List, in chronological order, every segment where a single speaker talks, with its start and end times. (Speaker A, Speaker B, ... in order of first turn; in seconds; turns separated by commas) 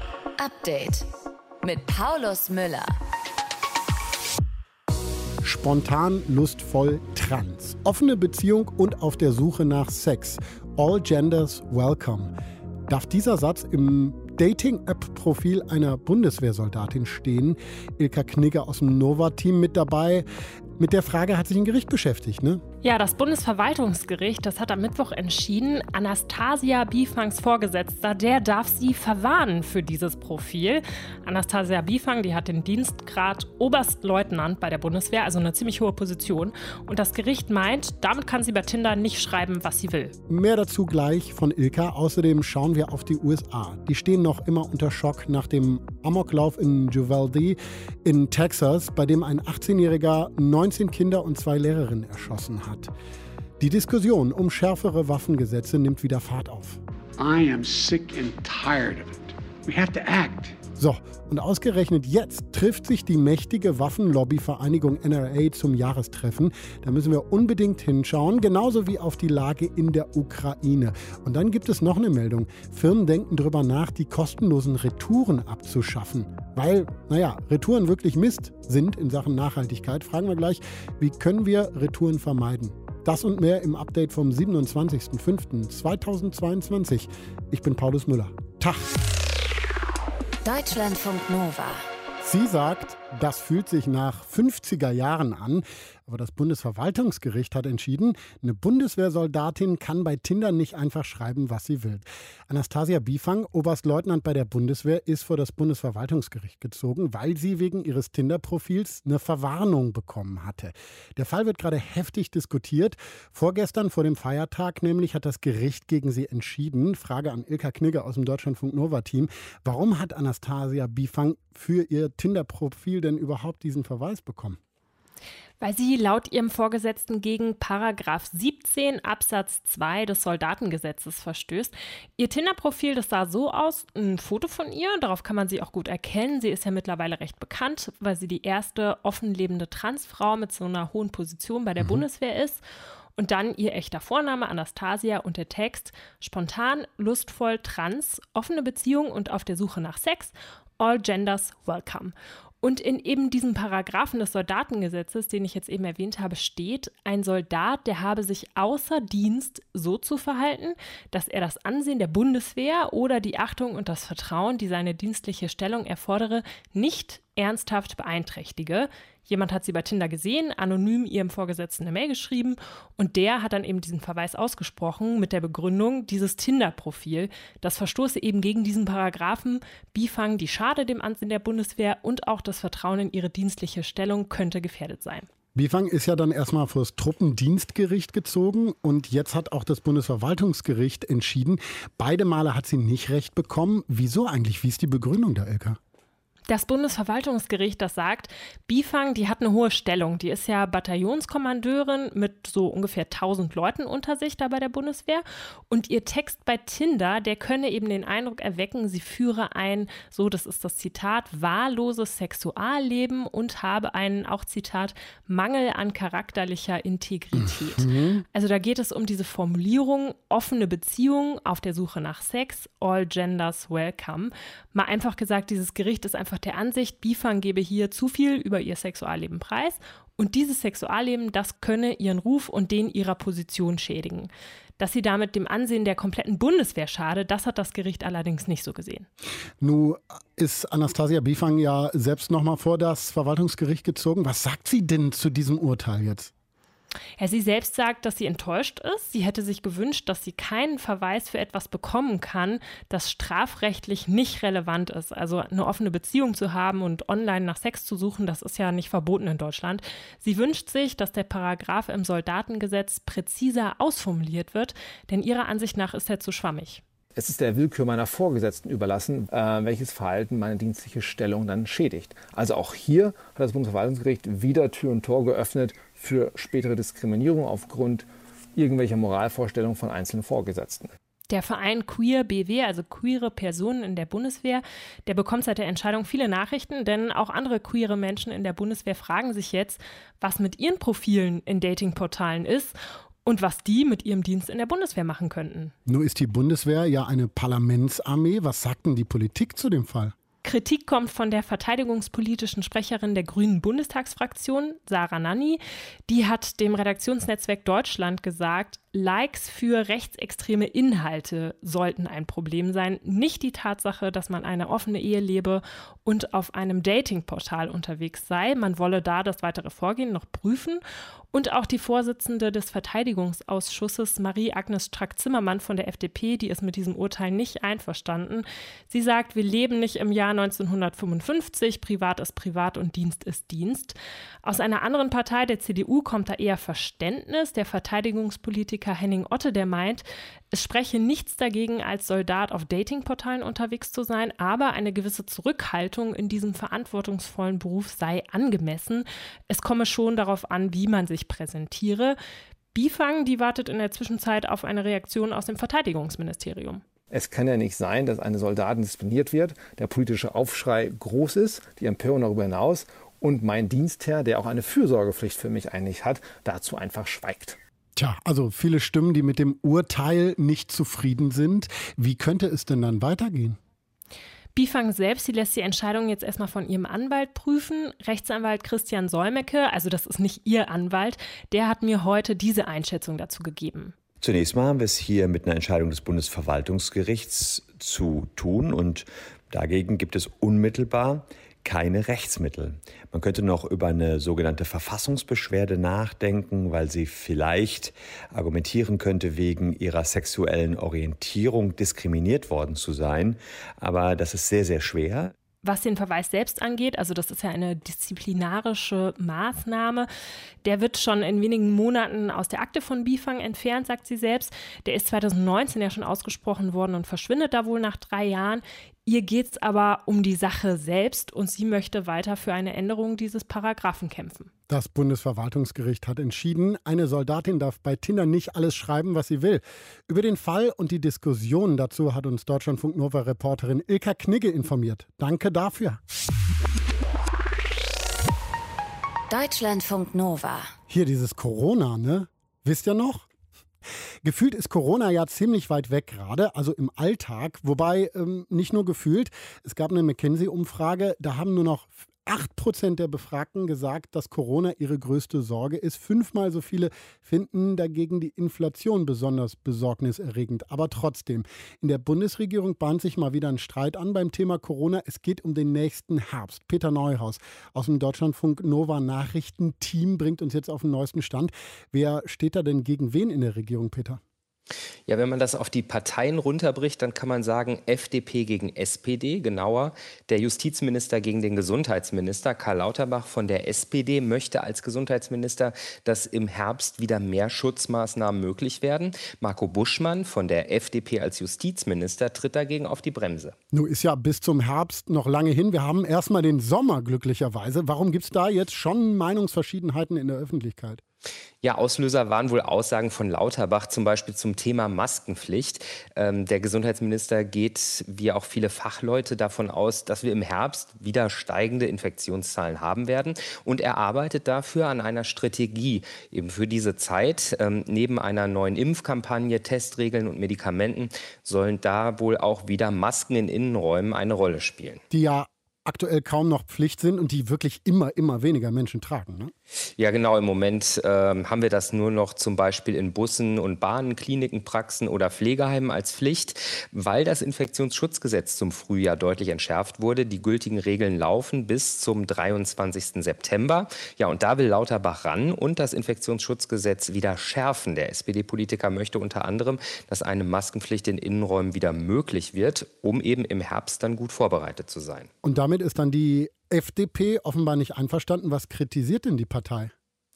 Speaker A: 0.4-1.1, Speaker A: 1.6-2.9, Speaker B: 5.4-12.3, Speaker B: 12.9-20.2, Speaker B: 20.8-22.6, Speaker C: 22.8-40.1, Speaker B: 40.3-52.9, Speaker B: 53.6-56.8, Speaker D: 57.2-60.6, Speaker B: 60.8-88.9, Speaker A: 90.4-91.8, Speaker B: 92.2-124.6, Speaker C: 125.6-142.6, Speaker C: 143.2-185.3, Speaker B: 185.5-195.8, Speaker C: 196.5-239.1, Speaker B: 217.8-218.2, Speaker B: 239.6-246.3, Speaker C: 247.2-266.8, Speaker E: 267.1-280.9, Speaker C: 281.3-295.7, Speaker B: 295.9-300.1, Speaker C: 300.4-320.8, Speaker C: 321.3-352.2, Speaker C: 352.7-356.8, Speaker E: 357.1-367.6, Speaker B: 367.9-373.6, Speaker C: 374.5-383.9, Speaker F: 384.2-405.3, Speaker C: 405.6-410.1, Speaker C: 410.6-424.5, Speaker B: 424.7-436.0, Speaker A: 439.3-440.7, Speaker B: 440.9-443.3, Speaker B: 444.2-474.2, Speaker G: 475.1-493.6, Speaker B: 493.7-501.0, Speaker G: 501.6-525.0, Speaker B: 525.1-529.5, Speaker G: 530.0-555.3, Speaker B: 555.4-559.9